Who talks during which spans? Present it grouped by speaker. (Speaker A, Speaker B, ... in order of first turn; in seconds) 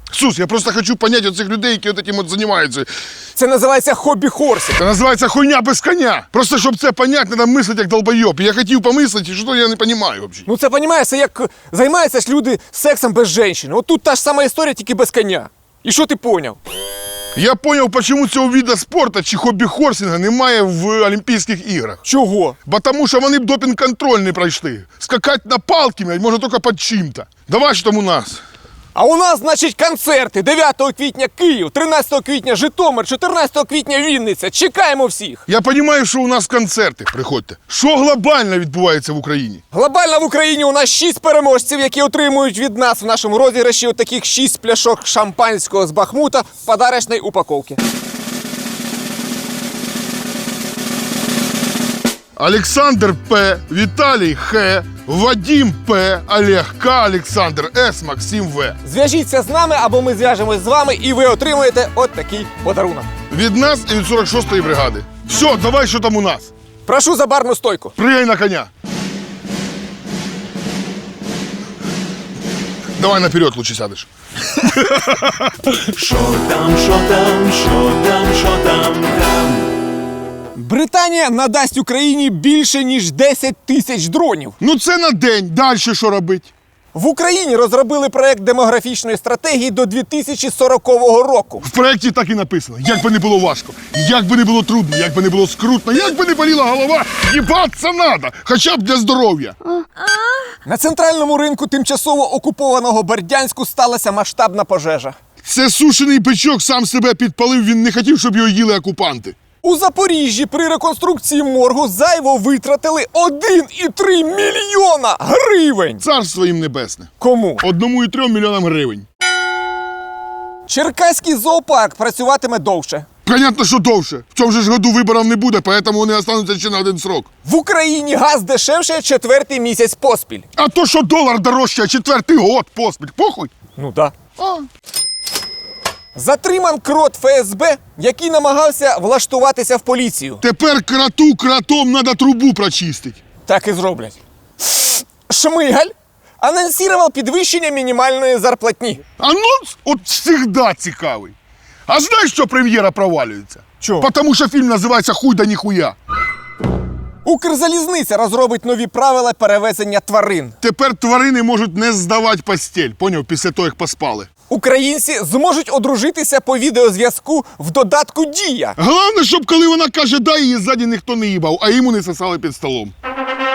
Speaker A: 0.1-2.9, 4.8-10.5, 17.4-22.0, 22.7-28.4, 35.5-39.6, 52.4-58.8, 63.3-66.5, 68.0-68.7, 73.0-75.7, 84.6-86.5, 91.6-99.6, 105.4-109.4, 116.0-119.1, 123.2-127.3, 130.6-133.5, 134.4-134.7, 140.4-143.2, 149.2-151.3, 151.9-156.0, 160.6-164.3, 168.8-172.9
Speaker B: 3.4-4.8, 10.5-16.6, 22.1-22.6, 28.9-35.5, 39.7-47.8, 58.8-63.1, 66.8-68.0, 80.5-84.6, 86.9-91.6, 100.7-105.2, 109.6-116.0, 117.2-117.6, 120.7-123.1, 127.5-130.5, 133.8-134.2, 136.2-140.4, 143.5-149.0, 153.8-154.1, 157.2-160.6, 164.5-168.8
Speaker C: 75.8-79.7